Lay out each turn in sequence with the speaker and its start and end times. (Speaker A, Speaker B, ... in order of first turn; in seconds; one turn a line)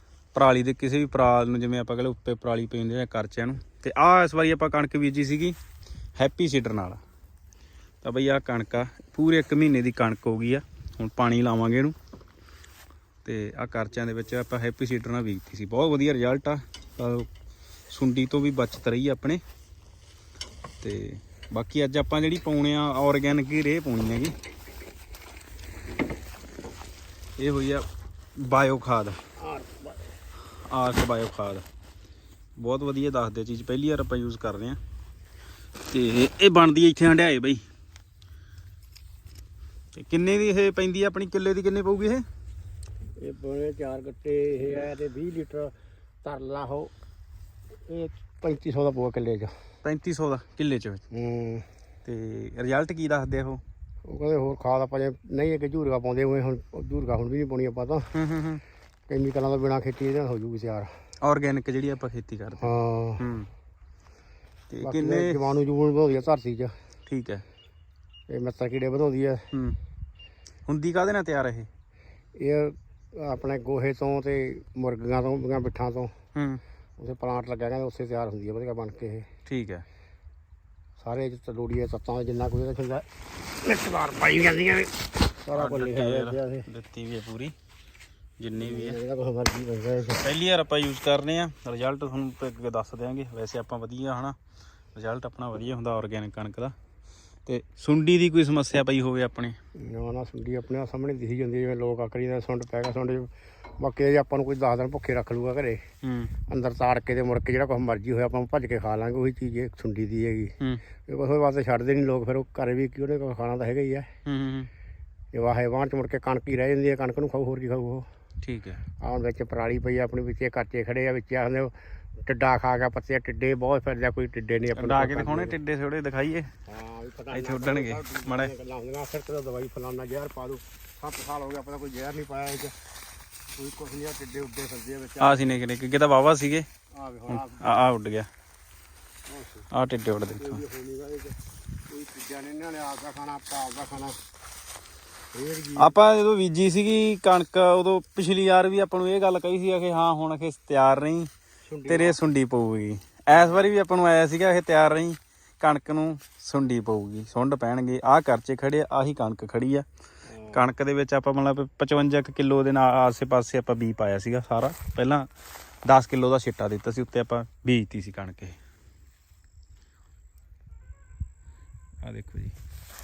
Speaker A: 0.3-5.5
Speaker A: 6.2-7.0
Speaker A: 8.0-11.9
Speaker A: 13.2-17.3
Speaker A: 17.9-19.4
Speaker A: 20.8-24.3
Speaker A: 27.4-27.9
Speaker A: 28.4-29.2
Speaker B: 29.4-30.0
Speaker A: 30.6-31.6
Speaker A: 32.6-34.8
Speaker A: 35.9-37.6
Speaker A: 40.0-42.2
Speaker B: 43.2-46.9
Speaker B: 47.9-49.5
Speaker A: 49.8-51.0
Speaker B: 51.1-51.7
Speaker A: 52.0-53.6
Speaker B: 54.0-58.1
Speaker A: 58.1-58.6
Speaker B: 59.1-60.9
Speaker A: 61.2-63.5
Speaker B: 62.6-63.3
Speaker A: 64.7-65.4
Speaker B: 64.8-66.7
Speaker A: 67.1-67.4
Speaker B: 68.3-69.5
Speaker A: 69.5-69.8
Speaker A: 70.7-71.7
Speaker B: 72.3-76.1
Speaker A: 76.3-76.6
Speaker B: 77.0-79.3
Speaker A: 79.5-79.8
Speaker B: 81.0-83.1
Speaker B: 83.6-86.7
Speaker A: 85.5-87.5
Speaker A: 88.4-89.0
Speaker B: 88.6-90.2
Speaker A: 90.1-94.3
Speaker A: 94.9-96.8
Speaker A: 97.5-99.6
Speaker B: 99.8-105.8
Speaker A: 106.0-106.3
Speaker B: 106.5-110.5
Speaker B: 111.1-114.1
Speaker A: 114.2-114.7
Speaker B: 115.3-118.1
Speaker A: 118.4-118.8
Speaker B: 119.0-121.7
Speaker B: 122.2-125.6
Speaker A: 124.8-126.5
Speaker B: 126.7-132.8
Speaker A: 127.3-128.5
Speaker B: 133.5-135.4
Speaker A: 135.2-136.7
Speaker B: 136.9-137.8
Speaker A: 137.3-138.3
Speaker B: 139.3-139.7
Speaker A: 139.7-140.6
Speaker B: 140.4-141.4
Speaker B: 141.9-144.2
Speaker B: 145.3-146.0
Speaker A: 145.8-151.3
Speaker B: 151.7-152.2
Speaker A: 151.9-159.9
Speaker B: 153.3-153.6
Speaker B: 160.3-160.7
Speaker A: 160.5-165.3
Speaker A: 165.8-168.6
Speaker A: 172.0-172.6